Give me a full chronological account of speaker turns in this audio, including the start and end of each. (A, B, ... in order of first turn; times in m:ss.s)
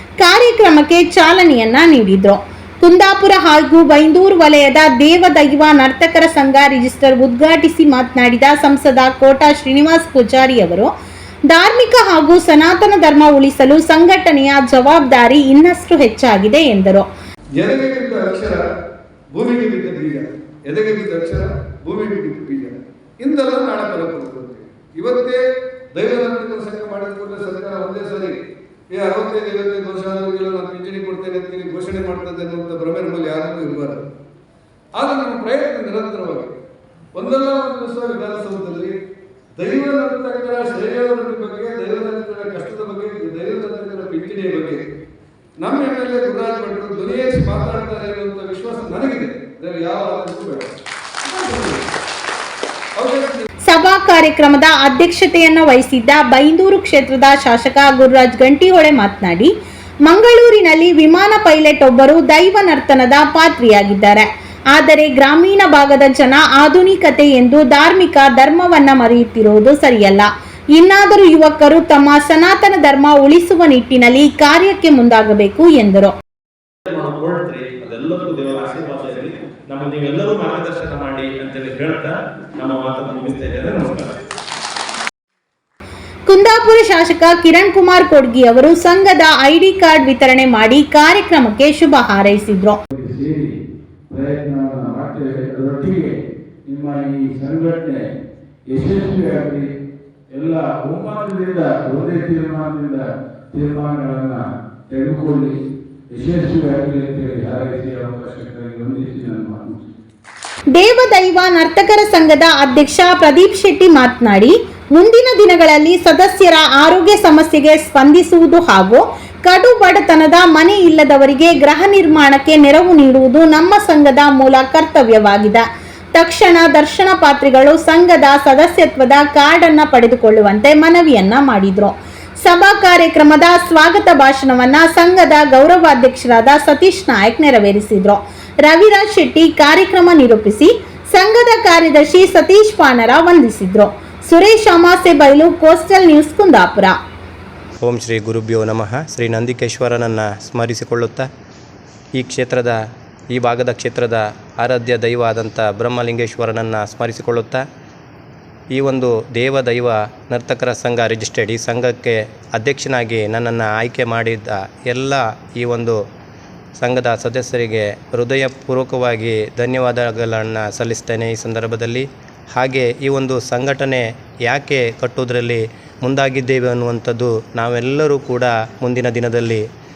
0:00.2-0:10.9 A
0:11.5-0:17.1 A
0:17.6-0:18.6 B
0:19.3-0:25.4 B
0:25.9-0:34.0 B
0:35.0-0:36.5 B
0:37.1-0:39.0 B
0:39.6-0:44.8 B
0:45.6-0:50.7 B
0:51.3-0:51.8 B
0:53.0-0:53.4 B
0:53.7-0:59.5 A
1:00.0-1:16.2 A
1:16.9-1:24.1 C
1:26.3-1:32.8 A
1:32.9-1:33.6 D
1:34.1-1:36.2 D
1:36.7-1:38.0 D
1:38.7-1:39.7 D
1:40.3-1:45.6 D
1:46.1-1:49.9 D
1:50.7-2:05.6 A
2:06.1-2:27.0 A
2:27.8-2:31.3 E
2:32.2-2:32.8 E
2:33.3-2:37.6 E
2:38.7-2:46.0 E
2:46.8-2:59.6 E